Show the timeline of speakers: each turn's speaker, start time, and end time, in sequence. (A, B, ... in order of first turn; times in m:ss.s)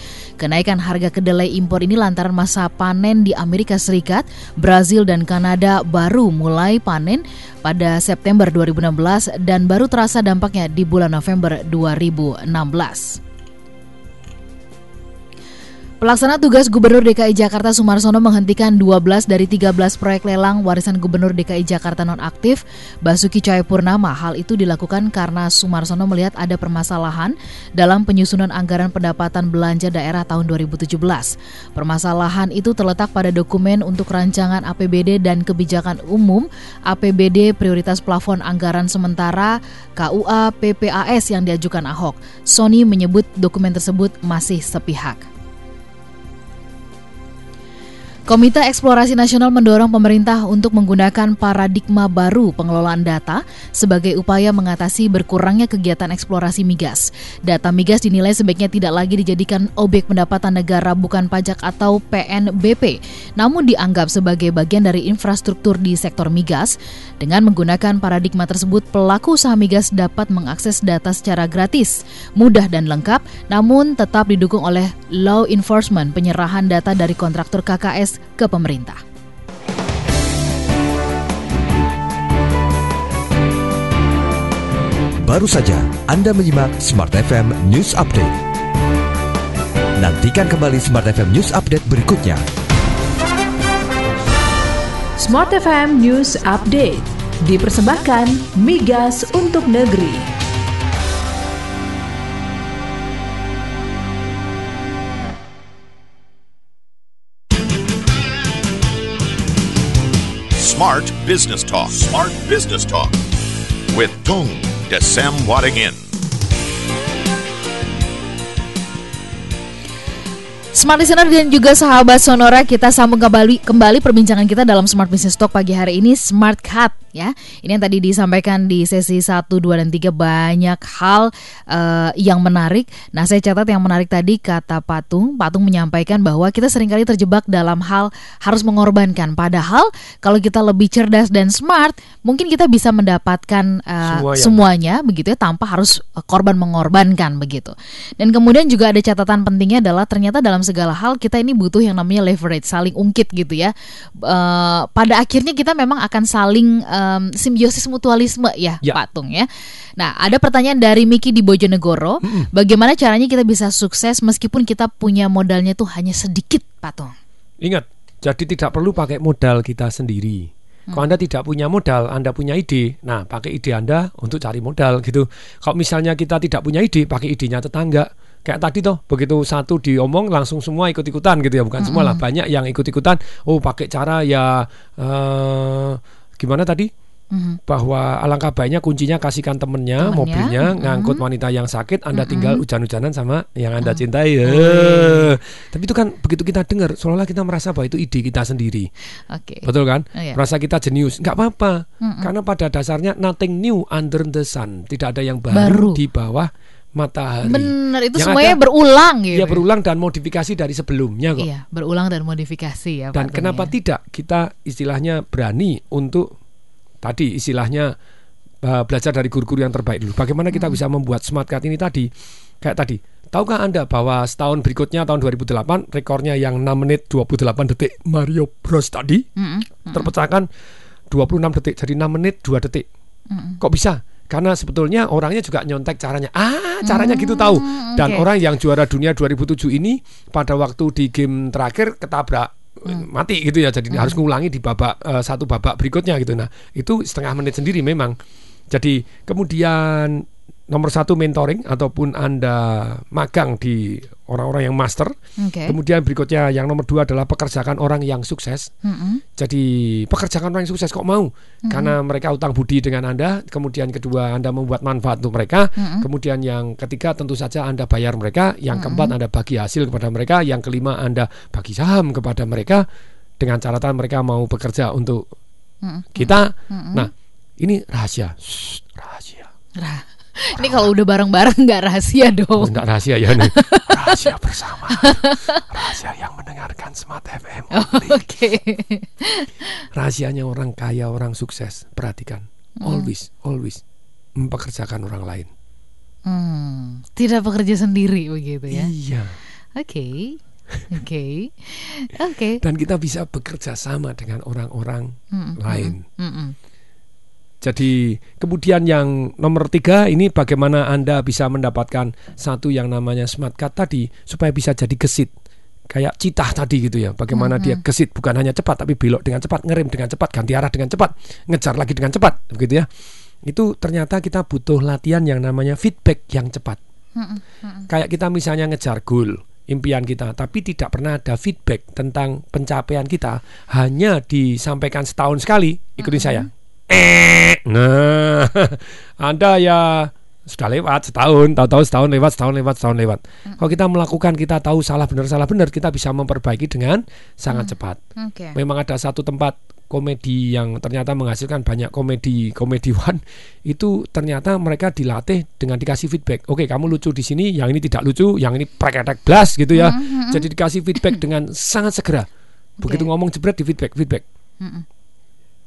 0:00.4-0:13.2 A
0:16.0-0:45.3 A
0:48.3-1:19.0 A
1:25.2-1:28.4 B
1:30.0-1:32.4 B
1:35.2-1:40.3 C
1:50.6-1:53.2 D
1:53.9-1:56.0 D
2:00.8-2:39.5 A
2:24.0-2:24.6 E
2:40.0-2:47.1 A
2:42.2-2:42.5 E
2:47.6-3:06.9 E
3:01.8-3:02.2 A
3:07.3-3:07.6 A
3:07.7-3:18.9 E
3:10.0-3:11.2 A
3:12.1-3:12.6 A
3:13.8-3:15.3 A
3:19.3-3:20.4 A
3:19.6-3:28.6 E
3:22.0-3:22.3 A
3:25.5-3:26.0 A
3:27.5-3:29.6 A
3:29.3-3:31.5 E
3:31.4-3:33.7 A
3:33.1-3:36.3 E
3:37.0-3:37.9 E
3:38.6-3:42.1 E
3:40.5-3:40.8 A
3:42.6-3:49.3 E
3:49.4-3:50.1 A
3:49.9-3:50.5 E
3:51.1-3:52.9 E
3:53.3-3:53.6 A
3:53.6-4:08.2 E
3:56.8-3:58.3 A
4:03.9-4:04.2 A
4:08.7-4:15.1 E
4:15.4-4:15.8 A
4:15.7-4:18.7 E
4:18.8-4:19.2 A
4:19.4-4:32.8 E
4:21.7-4:22.0 A
4:25.8-4:26.1 A
4:28.7-4:29.1 A
4:33.4-4:35.2 E
4:35.8-4:37.1 A
4:36.2-4:39.5 E
4:39.8-4:42.8 A
4:40.6-4:40.9 E
4:42.6-4:48.3 E
4:43.4-4:44.3 A
4:45.0-4:45.6 A
4:47.7-4:49.5 A
4:49.9-4:53.8 E
4:52.8-4:53.1 A
4:54.4-4:55.5 E
4:56.3-4:58.9 A
4:58.7-4:59.4 E
4:59.8-5:00.4 A
5:00.9-5:02.6 A
5:02.6-5:06.0 E
5:05.3-5:06.6 A
5:07.6-5:15.3 E
5:15.9-5:22.9 E
5:17.3-5:17.8 A
5:23.5-5:26.8 E
5:27.2-5:27.9 A
5:27.9-5:48.0 E
5:36.0-5:36.5 A
5:47.5-5:48.6 A
5:48.6-6:02.3 E
5:59.7-6:00.4 A
6:02.8-6:03.1 A
6:02.8-6:04.2 E